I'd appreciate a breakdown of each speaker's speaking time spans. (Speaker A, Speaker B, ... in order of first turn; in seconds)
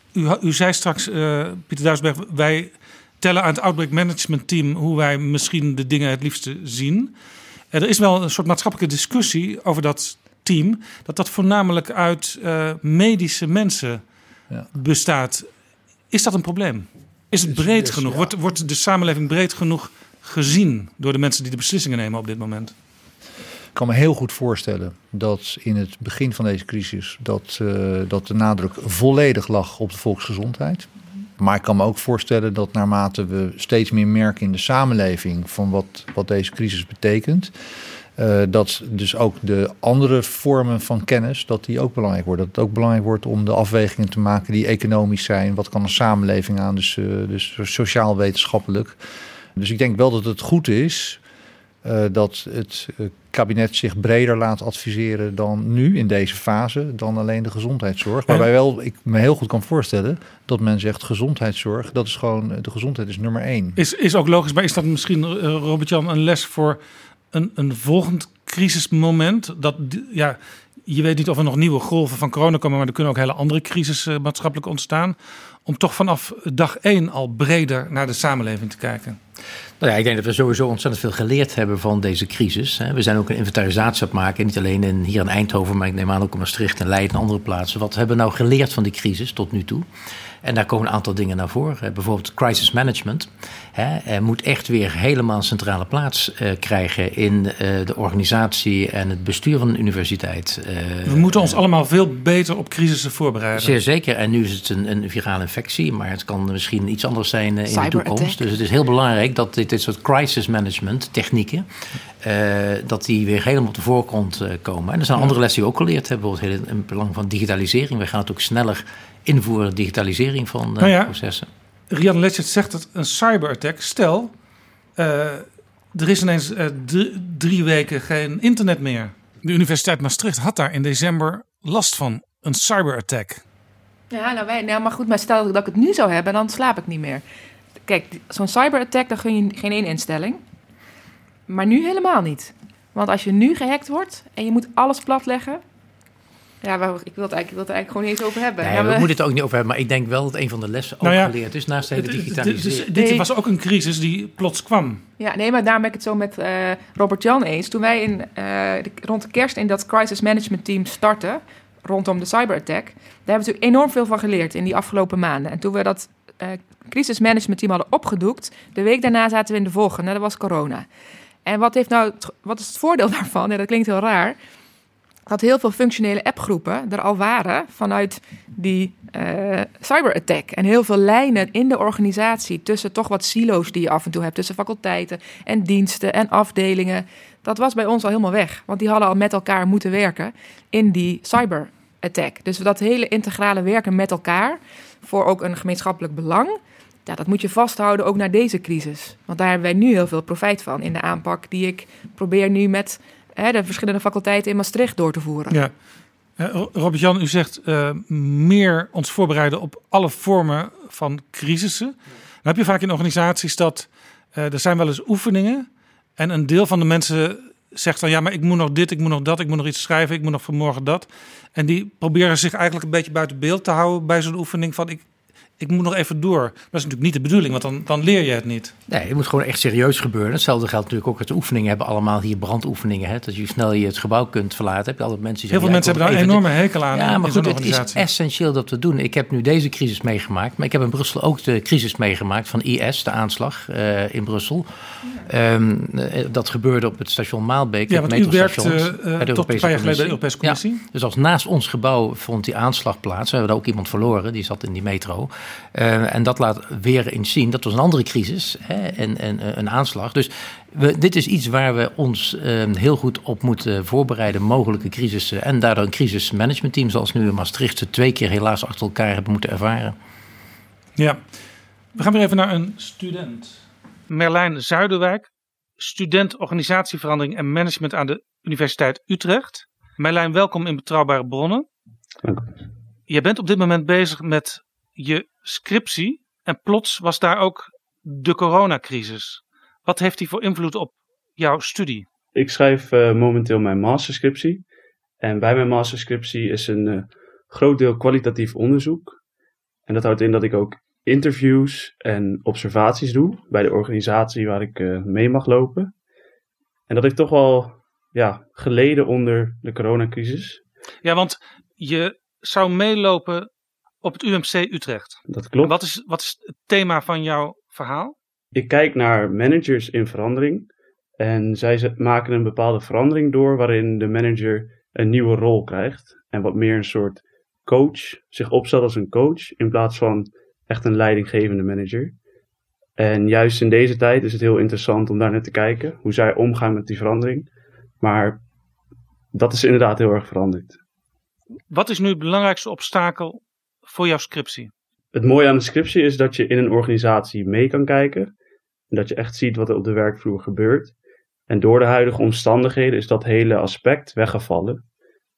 Speaker A: 0.1-7.1, 7.7-14.0, 14.7-15.5, 16.1-22.7, 63.8-66.8, 67.3-79.2, 101.1-103.8, 120.8-121.1, 121.9-124.3, 125.0-133.4, 151.0-151.3, 151.9-155.0, 206.4-215.7, 216.2-225.1, 225.6-228.7, 235.5-238.1, 247.9-250.8, 271.9-275.3, 275.8-281.6, 283.1-292.1, 311.0-313.5, 314.0-318.1, 341.7-344.7
Speaker B: 17.4-18.3, 23.8-37.5, 38.2-49.0, 49.6-51.2, 51.8-63.8
Speaker C: 79.8-89.8, 90.4-101.6, 103.6-111.7, 112.2-121.5, 148.6-152.9, 228.9-244.7, 245.2-269.9
Speaker D: 107.7-108.4, 134.1-137.2, 137.9-140.4, 141.5-145.6, 146.6-149.1, 153.0-153.3, 155.2-170.9, 171.4-174.4, 175.3-205.6
Speaker E: 282.2-282.5, 292.4-294.7, 295.2-299.2, 299.9-305.9, 306.9-310.6, 315.3-315.8, 318.6-332.2, 333.0-337.5, 338.0-338.4, 339.3-340.8, 345.1-348.3, 348.9-350.9, 351.5-354.9